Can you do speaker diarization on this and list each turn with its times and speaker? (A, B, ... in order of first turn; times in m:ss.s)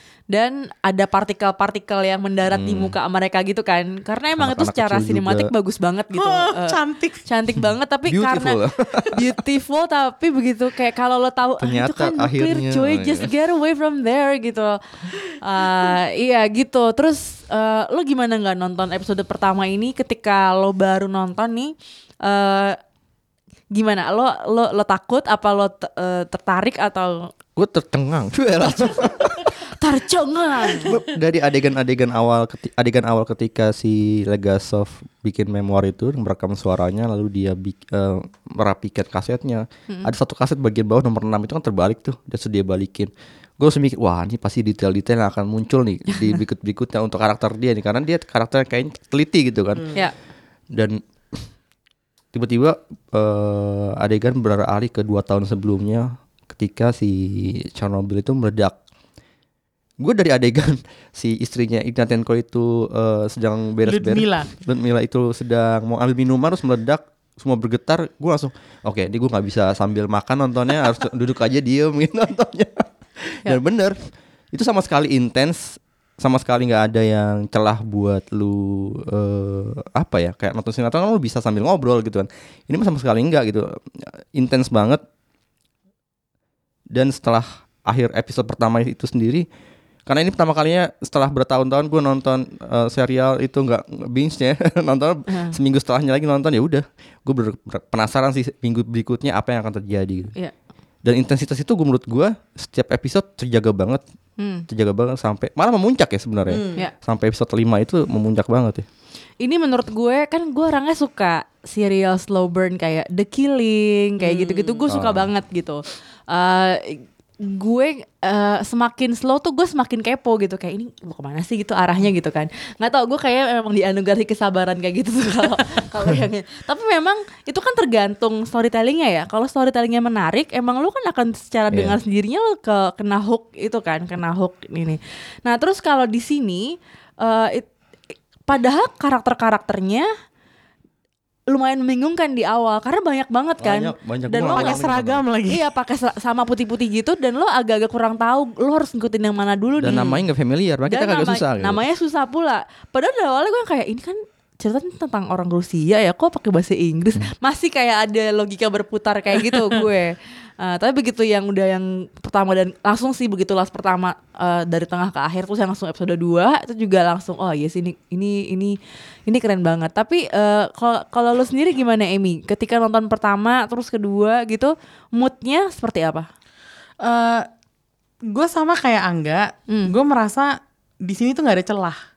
0:00.3-0:08.6 A
0:02.5-0:03.0 B
0:04.4-0:05.5 B
0:06.1-0:07.2 C
0:08.1-0:09.2 B
0:09.1-0:22.8 A
0:11.6-0:13.3 B
0:23.7-0:27.3 A
0:27.6-0:29.5 B
0:29.5-0:31.0 A
0:30.8-0:49.9 B
0:50.7-0:51.5 B
0:52.3-0:58.8 B
1:00.0-1:14.0 B
1:03.9-1:04.5 C
1:14.5-1:25.0 B
1:26.9-1:29.5 B
1:30.1-1:40.3 B
1:41.0-1:44.0 B
1:44.4-1:44.6 A
1:44.7-1:48.8 B
1:46.5-1:46.8 C
1:49.4-2:17.7 A
1:54.2-1:54.8 C
1:54.9-1:55.3 B
2:11.7-2:12.0 B
2:18.5-2:20.1 A
2:21.5-2:24.8 A
2:23.6-2:25.2 B
2:24.5-2:25.6 C
2:25.5-2:30.2 A
2:29.8-2:31.8 B
2:30.9-2:48.8 A
2:49.3-2:56.3 A
2:57.0-2:57.5 C
2:58.3-3:02.0 C